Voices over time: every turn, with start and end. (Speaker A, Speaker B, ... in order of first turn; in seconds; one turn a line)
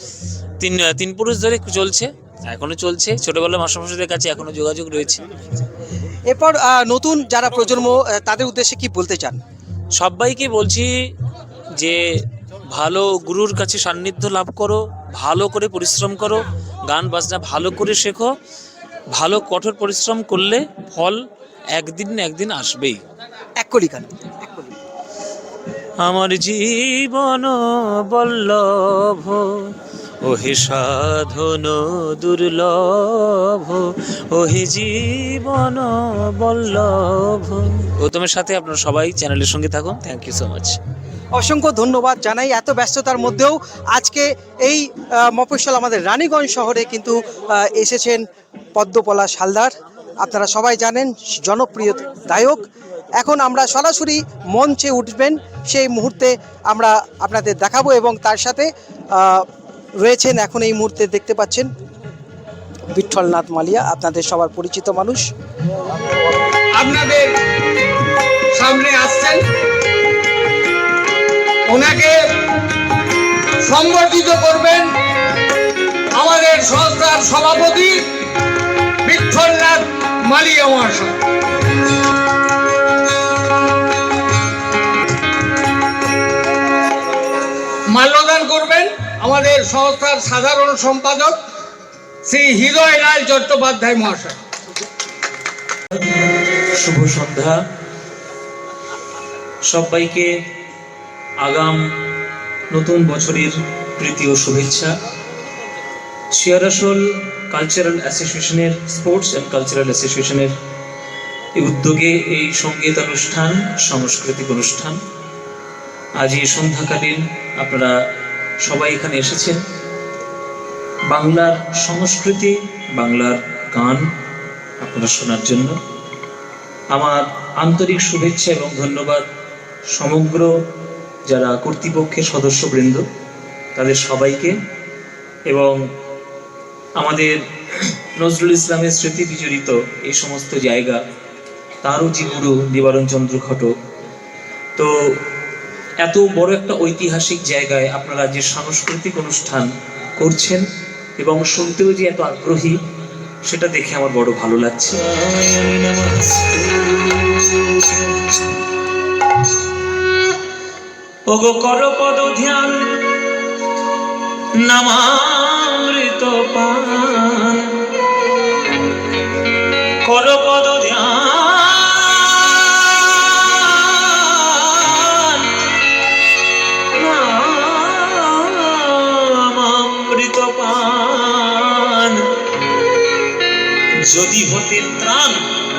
Speaker A: 0.6-5.2
Speaker B: 6.3-9.4
Speaker A: 10.0-10.9
Speaker A: 11.8-12.0
Speaker A: 12.7-18.3
Speaker A: 19.1-21.2
Speaker A: 21.7-23.0
Speaker B: 23.6-24.7
Speaker A: 26.0-40.8
Speaker B: 41.3-48.2
Speaker B: 48.8-52.6
Speaker B: 53.2-59.4
Speaker B: 60.0-61.7
Speaker B: 62.9-65.2
Speaker C: 66.7-67.3
Speaker C: 68.5-69.4
Speaker C: 71.7-72.3
Speaker C: 73.6-74.9
Speaker C: 76.1-78.1
Speaker C: 79.0-81.2
Speaker C: 87.9-91.4
Speaker C: 92.2-94.4
Speaker A: 96.0-97.6
Speaker A: 99.6-100.3
Speaker A: 101.4-101.8
Speaker A: 102.7-104.9
Speaker A: 106.3-110.5
Speaker A: 111.6-115.0
Speaker A: 116.2-118.0
Speaker A: 118.6-119.6
Speaker A: 121.1-124.1
Speaker A: 124.8-125.8
Speaker A: 126.9-129.2
Speaker A: 129.9-130.5
Speaker A: 131.2-133.0
Speaker A: 133.7-134.5
Speaker A: 135.5-135.8
Speaker A: 137.0-141.0
Speaker A: 141.8-143.7
Speaker A: 146.0-150.6
Speaker A: 151.2-152.8
Speaker A: 153.5-158.5
Speaker A: 161.3-162.8
Speaker A: 164.6-167.8
Speaker A: 170.0-175.6
Speaker A: 176.9-182.2
Speaker A: 184.1-185.4